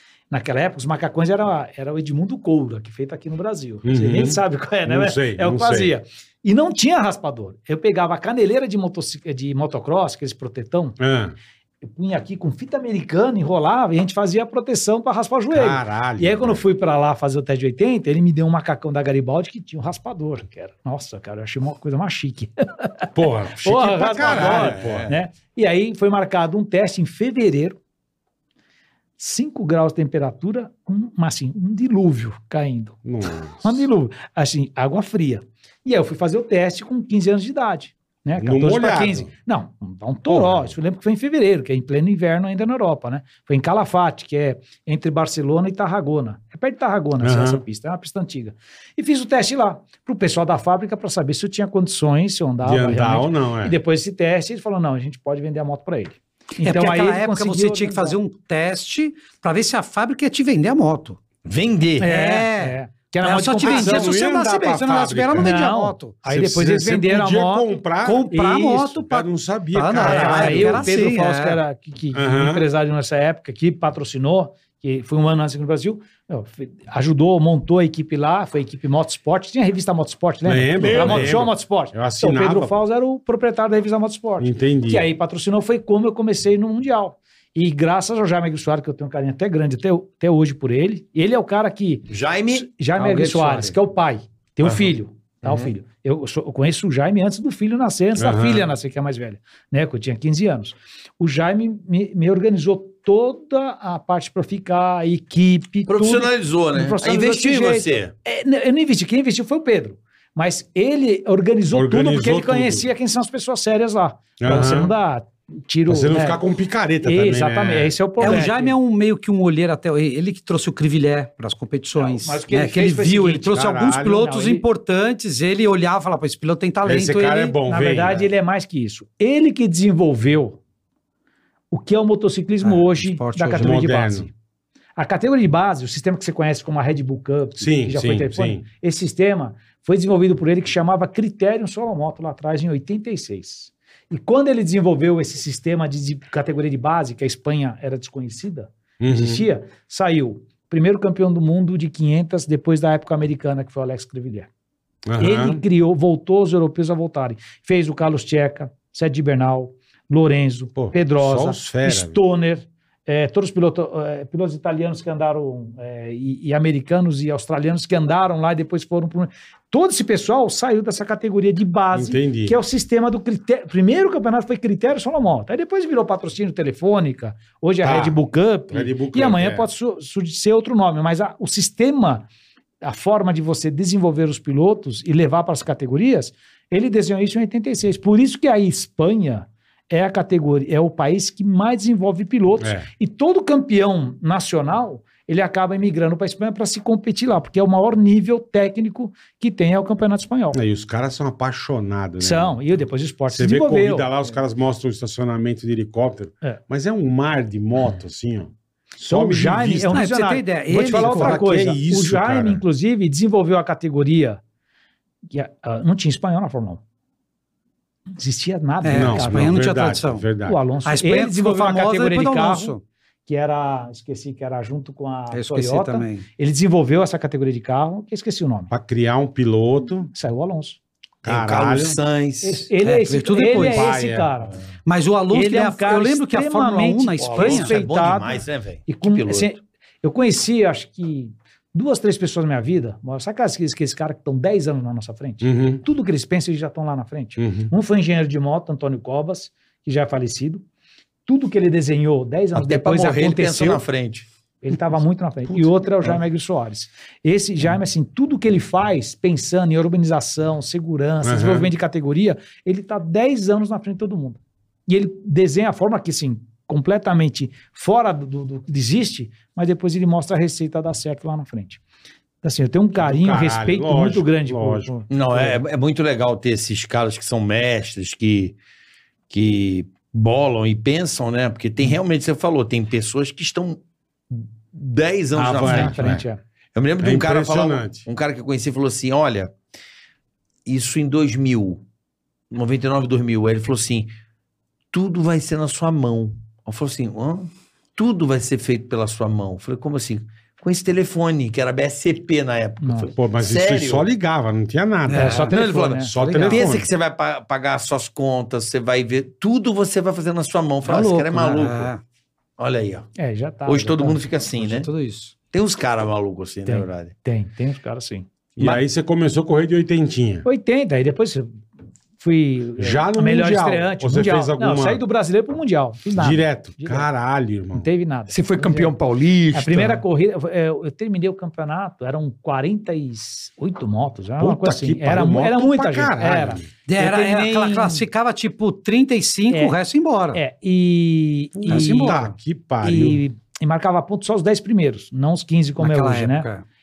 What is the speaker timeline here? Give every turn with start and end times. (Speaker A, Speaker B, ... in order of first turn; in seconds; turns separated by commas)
Speaker A: 0.3-11.0, Speaker B: 3.8-5.9, Speaker B: 11.0-11.3, Speaker A: 11.8-23.1, Speaker B: 15.5-16.6, Speaker B: 23.1-25.1, Speaker A: 23.6-27.8, Speaker C: 24.2-25.1, Speaker A: 29.2-33.0, Speaker B: 33.0-33.8, Speaker A: 33.6-58.2, Speaker B: 38.4-39.3, Speaker B: 40.3-40.7, Speaker B: 47.2-47.6, Speaker B: 52.6-53.8, Speaker D: 56.6-61.2, Speaker C: 61.4-62.1, Speaker D: 62.0-66.2, Speaker A: 62.0-64.2, Speaker B: 63.6-65.5, Speaker A: 65.4-67.7, Speaker B: 66.2-68.3, Speaker D: 68.0-71.6, Speaker A: 68.3-69.0, Speaker B: 69.0-71.0, Speaker A: 69.9-116.4, Speaker B: 72.1-72.7, Speaker B: 80.4-82.8, Speaker B: 84.4-85.1, Speaker C: 92.1-92.6, Speaker D: 93.0-93.8, Speaker B: 98.2-98.7, Speaker C: 105.9-108.1, Speaker B: 111.7-112.9, Speaker B: 114.4-114.9, Speaker B: 115.9-117.9, Speaker A: 117.0-118.7, Speaker D: 118.2-127.6, Speaker A: 122.0-124.6, Speaker B: 123.5-124.3, Speaker B: 126.8-128.3, Speaker A: 127.6-130.6, Speaker A: 131.7-134.3, Speaker D: 132.6-133.8, Speaker B: 133.5-134.3, Speaker A: 135.0-154.5, Speaker B: 137.6-138.6, Speaker B: 149.0-149.4, Speaker B: 155.1-155.6, Speaker A: 155.2-182.3, Speaker B: 160.8-162.2, Speaker B: 171.9-172.6, Speaker B: 177.8-178.2, Speaker B: 178.7-179.7, Speaker A: 182.8-200.6, Speaker B: 192.6-192.9, Speaker B: 200.5-202.6, Speaker A: 202.2-204.1, Speaker B: 203.3-210.1, Speaker A: 209.0-214.4, Speaker D: 209.9-211.5, Speaker B: 210.7-212.6, Speaker A: 215.3-216.8, Speaker A: 218.2-219.7, Speaker D: 218.8-220.2, Speaker B: 218.9-220.6, Speaker A: 220.4-228.7, Speaker D: 220.8-222.8, Speaker D: 225.3-226.2, Speaker B: 228.7-230.1, Speaker A: 230.1-230.8, Speaker B: 231.2-232.0, Speaker C: 231.2-232.7, Speaker A: 232.4-234.6, Speaker D: 232.8-233.9, Speaker B: 233.5-234.3, Speaker D: 234.8-237.7, Speaker A: 235.3-250.6, Speaker C: 237.2-239.5, Speaker B: 245.4-245.8, Speaker B: 247.4-247.7, Speaker A: 251.2-253.8, Speaker C: 252.5-254.2, Speaker A: 254.6-271.8, Speaker B: 261.2-261.7, Speaker A: 272.4-275.6, Speaker B: 273.0-274.9, Speaker C: 275.1-278.6, Speaker C: 279.3-283.8, Speaker C: 284.3-286.1, Speaker B: 285.4-286.2, Speaker A: 285.4-286.4, Speaker C: 286.7-289.5, Speaker B: 287.0-288.0, Speaker C: 290.6-291.8, Speaker C: 292.5-294.1, Speaker C: 294.9-304.1, Speaker A: 302.8-303.1, Speaker B: 303.1-306.9, Speaker D: 305.1-305.5, Speaker A: 305.1-306.6, Speaker C: 305.5-311.9, Speaker D: 310.8-312.0, Speaker C: 312.6-313.1, Speaker A: 313.2-314.2, Speaker C: 313.6-314.9, Speaker D: 314.6-315.3, Speaker C: 315.5-317.1, Speaker A: 316.6-318.8, Speaker B: 318.6-320.4, Speaker A: 320.4-321.6, Speaker A: 322.2-327.1, Speaker B: 322.8-325.0, Speaker B: 326.1-327.9, Speaker A: 327.7-328.9, Speaker C: 328.3-330.0, Speaker A: 329.5-338.1, Speaker B: 334.4-336.7, Speaker D: 336.9-340.4, Speaker A: 339.5-339.7, Speaker A: 340.3-342.2, Speaker B: 341.5-343.2, Speaker D: 341.7-342.3, Speaker A: 342.8-346.5, Speaker D: 345.8-346.6